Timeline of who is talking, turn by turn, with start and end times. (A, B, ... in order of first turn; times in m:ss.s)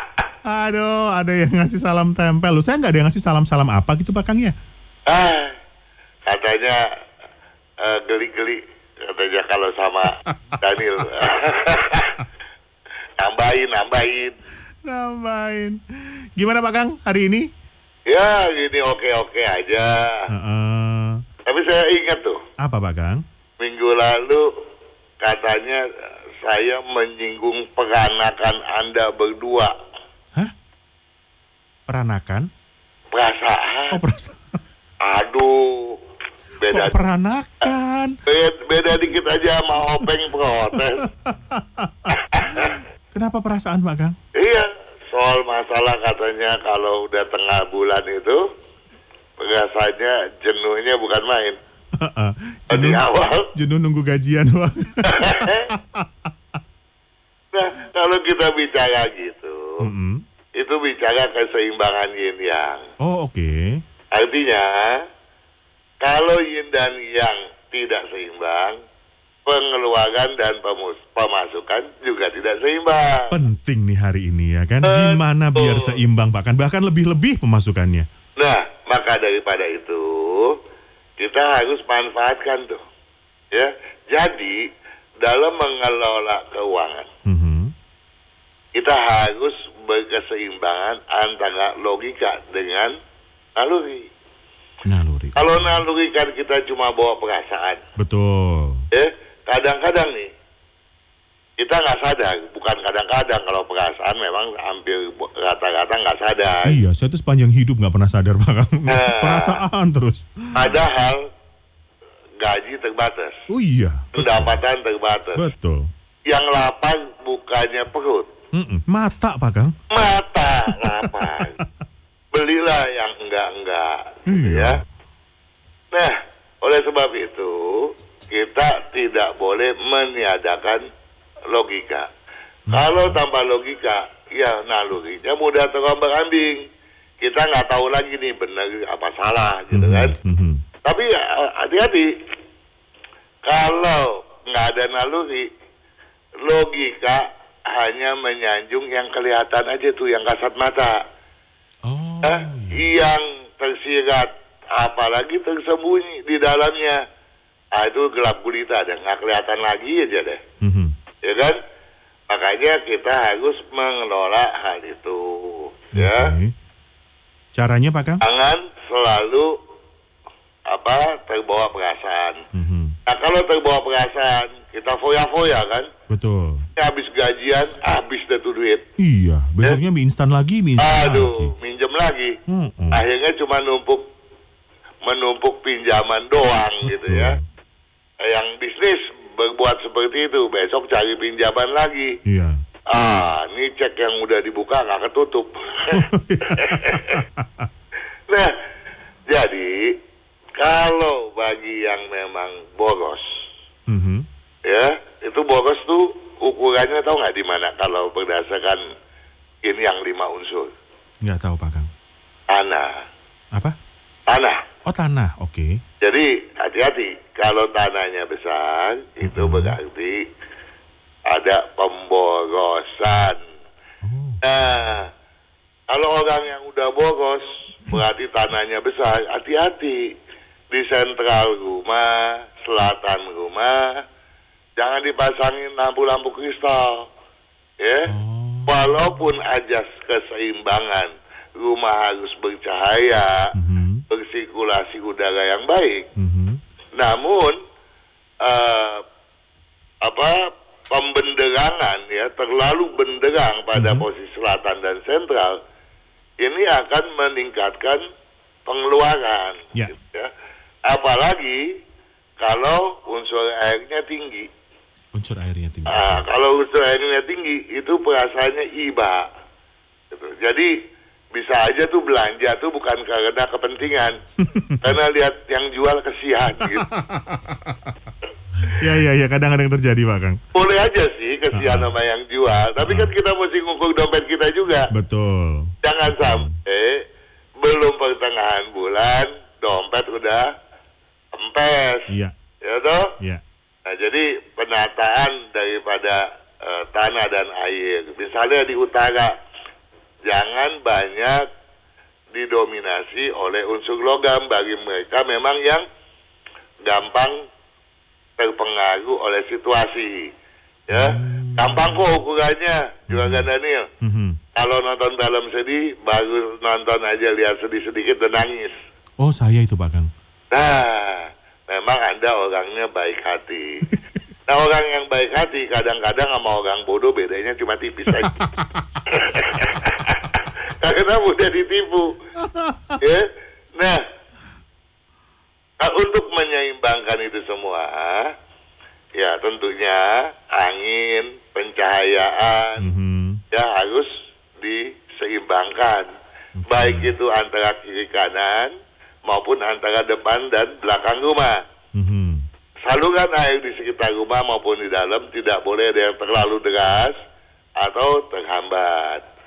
0:00.4-0:04.5 A
0:05.1-0:05.5 B
0:06.2-0:06.8 B
0:07.8-0:12.2 B
0:13.2-0:14.4 B
0:14.8-0:15.8 A
0:16.4-0:17.5 A
0:18.1-0:20.3 B
0:20.3-0:21.2 A
0:21.4-0:22.4 B
0:22.6-0:23.2 A
0:23.6-0:24.5 B
0:25.2-0:25.8 B
0:26.4-0:29.7 B
0:31.9-0:32.5 A
0:33.1-0:34.0 B
0:33.9-0:34.4 A
0:35.0-0:36.0 B
0:36.6-0:37.0 B
0:36.7-0:38.2 A
0:38.3-0:41.0 B
0:41.0-0:44.2 A
0:42.1-0:42.8 B
0:44.4-0:48.4 B
0:49.4-0:51.6 B
0:52.0-0:56.3 A
0:52.7-0:53.5 B
0:55.1-0:55.7 B
0:57.5-0:59.8 B
0:59.8-1:00.2 A
1:00.6-1:02.8 B
1:03.0-1:03.8 A
1:04.1-1:05.0 B
1:06.0-1:08.8 B
1:09.4-1:13.4 B
1:13.3-1:18.1 A
1:14.8-1:16.0 B
1:18.4-1:20.6 B
1:21.2-1:22.8 B
1:23.5-1:24.6 B
1:25.2-1:27.1 B
1:27.2-1:27.7 A
1:28.8-1:33.0 B
1:33.6-1:34.1 B
1:34.8-1:35.8 A
1:35.4-1:37.8 B
1:38.0-1:38.8 A
1:38.9-1:40.3 B
1:41.6-1:46.8 B
1:46.6-1:50.8 A
1:48.9-1:49.6 B
1:50.5-1:51.2 B
1:52.4-1:53.4 B
1:53.5-1:54.6 A
1:54.1-1:55.4 B
1:55.4-1:55.9 A
1:56.3-1:58.3 B
1:58.5-1:59.7 A
1:59.9-2:01.6 B
2:00.7-2:01.7 A
2:02.3-2:04.8 B
2:04.3-2:04.8 A
2:05.9-2:10.8 B
2:11.5-2:12.1 B
2:12.7-2:13.2 A
2:12.7-2:16.6 B
2:17.2-2:20.1 B
2:19.7-2:20.6 A
2:20.8-2:22.1 B
2:23.4-2:25.5 B
2:26.4-2:31.0 B
2:31.8-2:32.9 A
2:32.2-2:37.0 B
2:37.7-2:40.4 B
2:40.6-2:40.9 A
2:41.2-2:41.6 B
2:42.3-2:46.3 B
2:45.9-2:46.5 A
2:47.5-2:48.2 A
2:48.2-2:49.5 B
2:50.7-2:52.4 B
2:52.5-2:52.9 A
2:53.1-2:55.9 B
2:56.1-2:56.6 A
2:56.8-2:58.8 B
2:59.0-3:01.5 A
3:00.8-3:02.4 B
3:02.5-3:03.0 A
3:02.9-3:04.0 B
3:05.0-3:07.4 B
3:06.8-3:07.4 A
3:08.2-3:12.2 B
3:12.2-3:13.2 A
3:12.9-3:17.2 B
3:15.9-3:17.7 A
3:19.3-3:19.9 B
3:20.6-3:23.2 B
3:23.9-3:24.3 A
3:24.7-3:28.8 B
3:29.6-3:30.7 B
3:31.2-3:31.9 A
3:32.5-3:33.0 B
3:34.3-3:34.6 B
3:34.8-3:35.8 A
3:36.0-3:40.3 B
3:39.2-3:39.8 A
3:41.3-3:43.4 B
3:44.0-3:44.4 A
3:44.4-3:45.1 B
3:45.9-3:50.0 B
3:50.7-3:54.0 B
3:54.8-3:57.1 B
3:57.8-3:58.1 B
3:58.1-3:59.0 A
3:58.7-4:03.5 B
4:03.5-4:04.0 A
4:04.1-4:06.0 B
4:06.2-4:06.6 A
4:07.0-4:07.6 B
4:08.4-4:09.0 B
4:10.0-4:10.4 B
4:10.9-4:15.6 B
4:13.7-4:14.0 A
4:16.4-4:18.0 B
4:18.6-4:20.3 B
4:20.9-4:21.6 B
4:22.4-4:24.5 B
4:25.1-4:26.2 A
4:25.9-4:29.3 B
4:30.1-4:30.7 B
4:31.3-4:34.1 B
4:34.4-4:35.0 A
4:34.8-4:36.9 B
4:36.6-4:37.9 A
4:38.6-4:40.4 A
4:40.5-4:44.9 B
4:41.5-4:41.9 A
4:42.8-4:43.1 A
4:44.9-4:46.5 A
4:45.8-4:47.0 B
4:47.6-4:50.4 B
4:51.3-4:52.1 B
4:52.6-4:53.1 B
4:53.9-4:59.3 B
5:00.3-5:01.4 B
5:02.3-5:05.8 B
5:06.8-5:07.4 B
5:08.4-5:10.3 B
5:10.9-5:13.9 B
5:10.9-5:12.1 A
5:13.1-5:13.5 A
5:14.0-5:14.4 A
5:14.6-5:18.7 B
5:19.2-5:20.1 A
5:20.5-5:23.8 B
5:24.5-5:28.4 B
5:28.1-5:29.0 A
5:29.1-5:32.1 B
5:29.5-5:29.8 A
5:32.4-5:33.0 A
5:33.0-5:34.0 B
5:35.8-5:38.3 B
5:39.2-5:42.8 B
5:42.8-5:43.4 A
5:43.5-5:44.1 B
5:44.6-5:46.1 B
5:46.6-5:47.1 A
5:46.7-5:48.7 B
5:49.3-5:51.6 B
5:51.9-5:52.4 A
5:52.8-5:57.1 B
5:57.8-5:59.2 B